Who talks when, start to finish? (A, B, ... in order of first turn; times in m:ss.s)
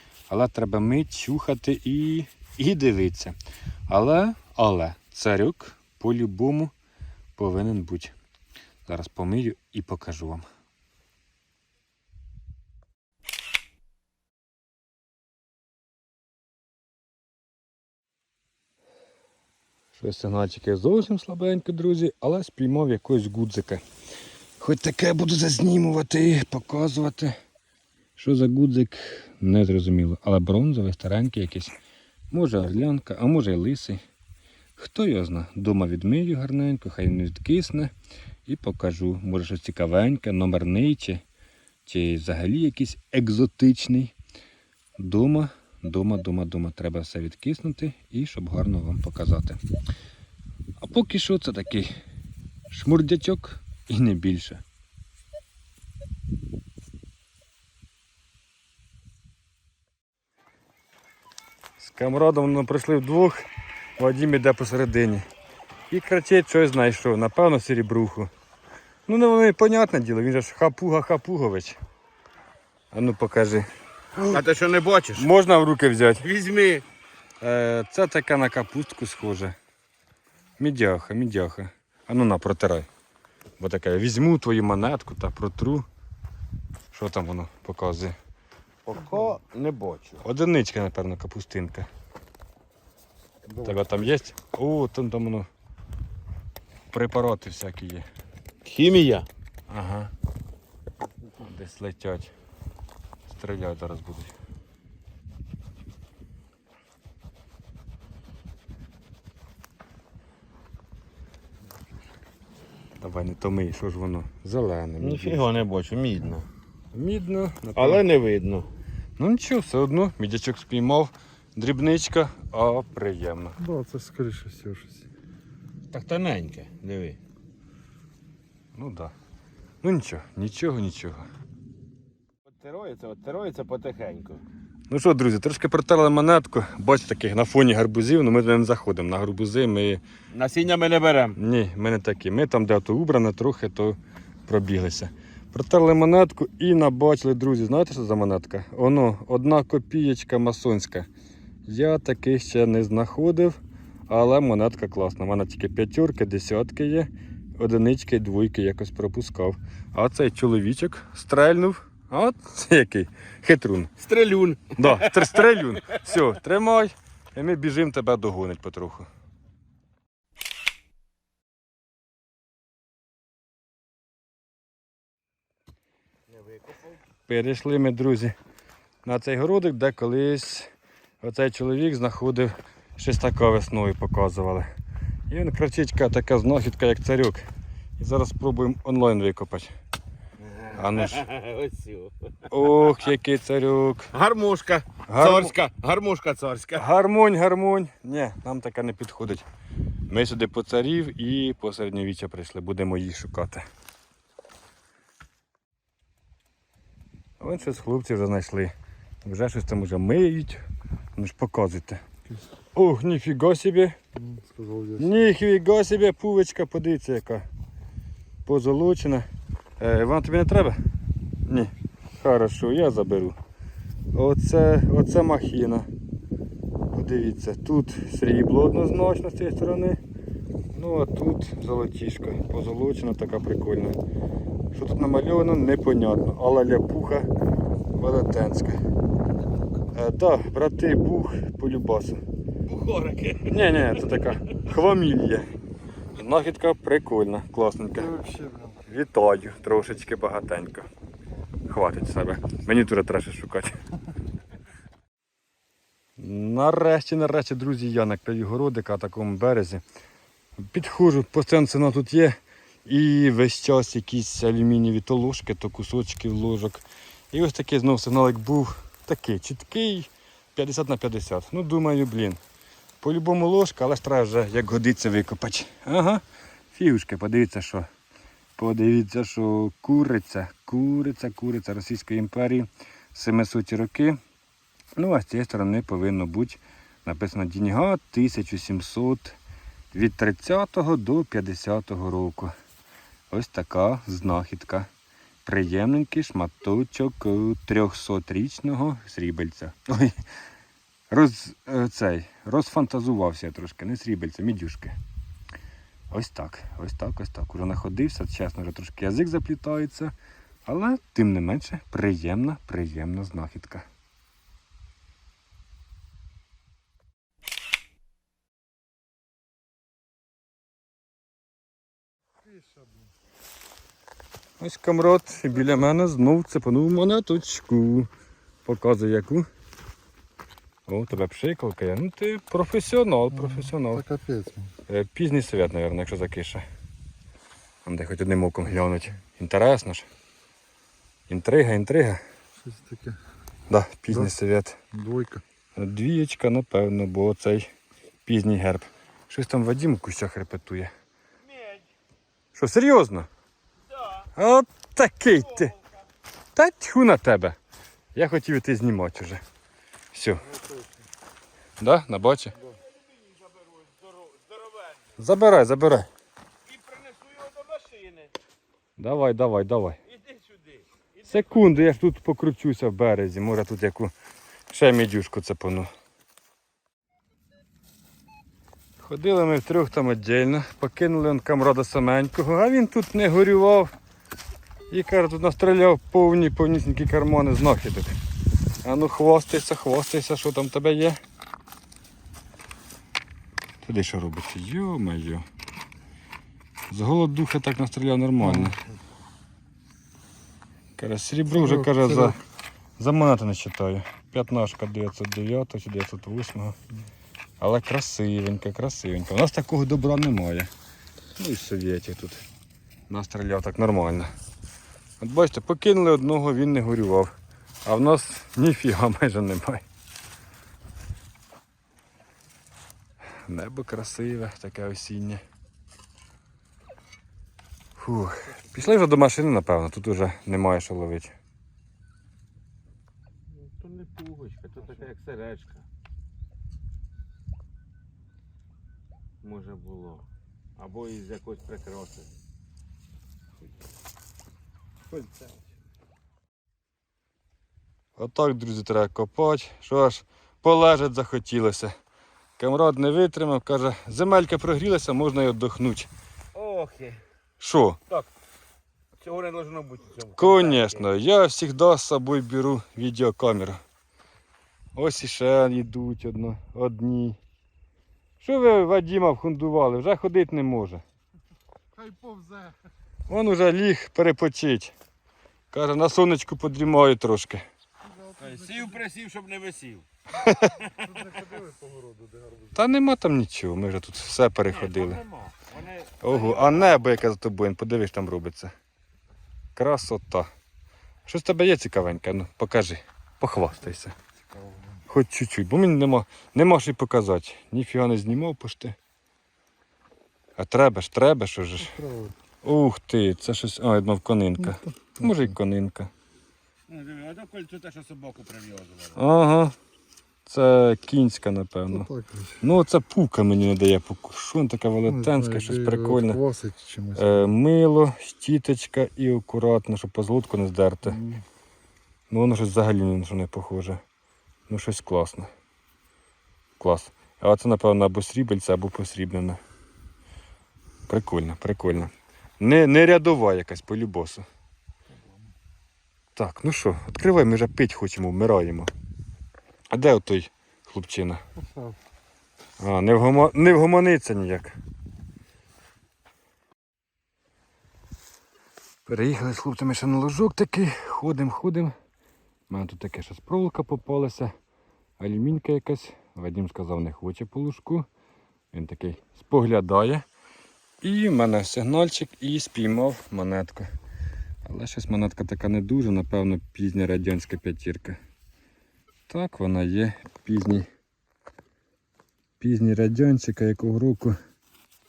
0:00.3-0:03.4 A
0:03.9-0:06.7 A
0:07.4-0:08.2 A
0:08.9-0:10.5 A
0:20.0-0:23.8 A
0:24.6-0:27.4 A
0:28.2-0:31.8 A
0:32.3-0:34.0 A
0:34.8-0:37.9 A
0:38.5-0:41.2 A
0:41.8-0:44.1 A
0:45.0-0:49.6 A
0:50.8-0:51.9 A
0:52.7-0:54.6 A
1:01.8-1:03.4 A
1:04.0-1:05.3 A
1:05.9-1:08.3 A
1:09.1-1:11.8 A
1:12.9-1:13.7 A
1:14.2-1:15.3 B
1:15.2-1:16.2 A
1:16.2-1:16.8 B
1:17.4-1:19.6 A
1:20.6-1:22.9 A
1:23.6-1:25.9 A
1:26.9-1:28.2 A
1:28.8-1:30.2 B
1:30.2-1:31.9 A
1:33.4-1:34.2 C
1:33.6-1:35.5 A
1:36.9-1:38.1 A
1:38.6-1:39.3 B
1:39.7-1:40.1 A
1:41.4-1:42.3 A
1:43.3-1:44.3 A
1:53.0-1:55.5 A
1:55.0-1:56.5 B
1:56.9-1:58.0 A
1:57.8-1:58.7 B
1:59.2-2:03.6 A
2:03.6-2:05.1 C
2:05.9-2:07.2 B
2:08.8-2:09.1 A
2:09.8-2:11.3 A
2:12.5-2:14.4 B
2:14.9-2:20.0 A
2:20.3-2:21.4 B
2:21.4-2:31.1 A
2:31.7-2:43.9 A
2:44.0-2:46.0 B
2:44.8-2:49.1 A
2:56.3-2:57.0 B
2:57.3-2:58.4 A
2:59.0-3:00.7 A
3:01.2-3:04.7 A
3:05.3-3:07.4 A
3:08.0-3:09.7 A
3:10.5-3:12.3 B
3:10.7-3:11.2 A
3:12.5-3:14.1 A
3:14.1-3:16.9 B
3:15.1-3:15.5 A
3:16.8-3:19.4 A
3:20.1-3:23.6 A
3:27.4-3:28.7 A
3:29.2-3:30.6 A
3:31.2-3:32.0 A
3:32.8-3:34.0 A
3:34.2-3:35.2 C
3:35.0-3:37.5 A
3:38.4-3:39.3 A
3:39.8-3:40.8 A
3:41.5-3:43.4 A
3:44.1-3:45.9 A
3:46.9-3:50.0 A
3:50.7-3:54.0 A
3:54.7-3:57.3 A
3:58.0-3:58.8 A
3:59.9-4:02.2 A
4:02.7-4:03.6 B
4:03.4-4:05.5 A
4:06.2-4:08.1 A
4:07.9-4:08.9 C
4:08.9-4:10.9 A
4:11.7-4:13.8 A
4:16.2-4:19.8 A
4:20.6-4:32.4 A
4:33.0-4:37.9 A
4:38.6-4:44.2 A
4:45.0-4:49.4 A
4:49.9-4:52.5 A
4:53.3-4:54.9 A
4:55.4-5:00.2 A
5:01.1-5:05.0 A
5:06.1-5:10.1 A
5:10.6-5:13.9 A
5:22.4-5:23.1 C
5:24.6-5:28.1 A
5:28.6-5:29.5 A
5:30.9-5:34.0 A
5:33.3-5:34.7 C
5:34.9-5:36.6 A
5:37.8-5:40.1 A
5:41.3-5:42.2 A
5:42.6-5:43.2 C
5:43.7-5:44.8 A
5:44.1-5:44.3 C
5:44.9-5:45.4 C
5:45.8-5:47.7 A
5:48.2-5:50.9 A
5:51.5-5:51.8 B
5:52.5-5:53.3 A
5:54.4-5:55.8 A
5:56.6-5:57.6 A
5:58.2-5:59.4 A
6:00.1-6:00.4 A
6:00.4-6:01.1 C
6:01.8-6:02.6 A
6:03.2-6:05.0 B
6:05.2-6:06.1 A
6:06.7-6:08.3 B
6:09.0-6:10.0 A
6:10.1-6:11.7 B
6:11.3-6:14.1 A
6:14.7-6:15.9 A
6:19.0-6:23.9 A
6:24.9-6:28.2 A
6:28.8-6:31.2 A
6:33.8-6:35.5 A
6:36.9-6:38.8 A
6:38.5-6:38.8 C
6:41.0-6:42.4 A
6:41.6-6:42.3 C
6:43.0-6:46.8 A
6:47.6-6:50.7 A
6:51.4-6:52.4 A
6:53.1-6:54.3 A
6:55.2-6:57.3 A
6:57.8-6:59.8 A
7:03.5-7:05.4 A
7:08.0-7:11.4 A
7:13.5-7:15.9 B
7:19.4-7:20.3 B
7:20.8-7:22.3 B
7:25.1-7:25.6 C
7:28.2-7:32.0 A
7:32.6-7:36.1 A
7:36.5-7:37.2 B
7:37.6-7:38.0 A
7:39.2-7:41.1 B
7:40.4-7:43.8 A
7:45.0-7:47.4 A
7:48.4-7:51.0 A
7:52.0-7:52.8 C
7:53.3-7:54.9 A
7:55.7-7:57.6 A
7:58.0-7:59.0 C
7:58.4-8:00.1 B
8:00.4-8:00.8 A
8:00.9-8:02.8 C
8:02.8-8:05.2 A
8:04.7-8:07.0 B
8:06.2-8:08.7 A
8:09.8-8:10.5 A
8:11.3-8:14.2 A
8:14.5-8:15.0 C
8:15.1-8:19.0 A
8:20.6-8:22.0 A
8:21.8-8:22.4 C
8:22.6-8:26.1 A
8:24.6-8:25.5 C
8:26.9-8:29.2 B
8:29.2-8:29.8 A
8:30.5-8:36.4 A
8:31.9-8:32.6 C
8:35.0-8:37.5 C
8:37.2-8:41.2 A
8:41.1-8:41.4 C
8:42.3-8:44.0 A
8:44.7-8:45.5 A
8:46.8-8:49.6 A
8:51.1-8:54.5 A
8:56.4-8:58.9 A
8:59.9-9:01.4 A
9:01.6-9:02.0 C
9:02.8-9:04.8 A
9:09.1-9:12.0 A
9:12.7-9:14.5 A
9:15.2-9:18.1 A
9:18.7-9:20.2 A
9:21.0-9:23.9 A
9:24.6-9:28.2 A
9:29.3-9:30.9 A
9:32.6-9:34.4 A